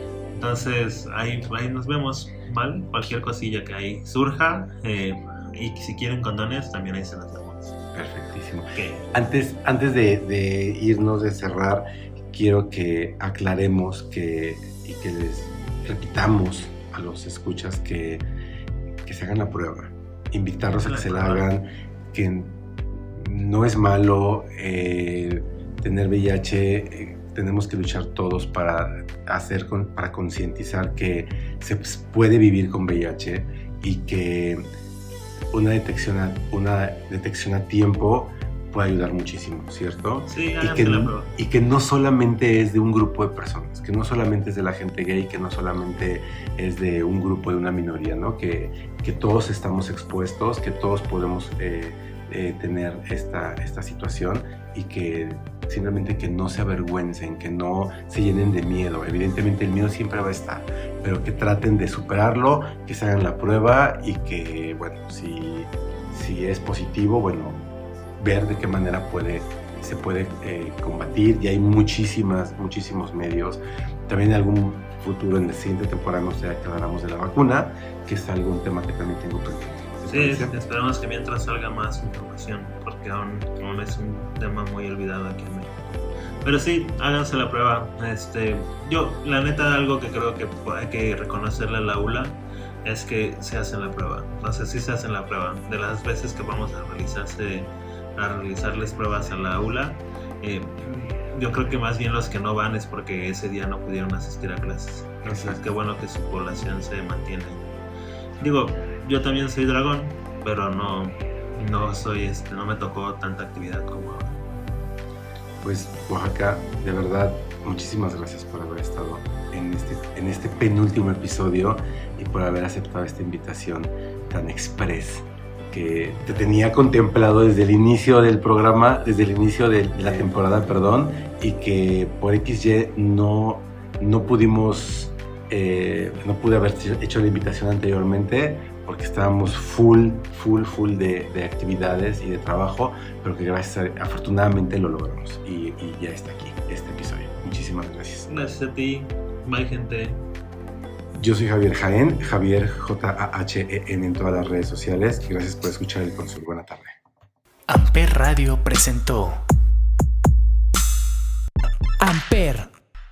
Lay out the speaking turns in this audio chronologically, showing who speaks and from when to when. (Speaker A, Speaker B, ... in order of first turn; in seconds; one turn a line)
Speaker A: 0.3-7.8
Speaker B: 7.9-18.2
Speaker A: 8.8-9.0
Speaker B: 19.1-22.6
Speaker A: 20.7-21.5
Speaker B: 23.1-34.7
Speaker B: 35.5-80.5
Speaker A: 40.3-41.3
Speaker A: 80.1-107.6
Speaker B: 105.3-105.7
Speaker A: 108.4-114.4
Speaker B: 115.6-148.3
Speaker A: 148.3-150.2
Speaker B: 151.2-157.0
Speaker C: 157.7-159.4
Speaker C: 162.0-162.7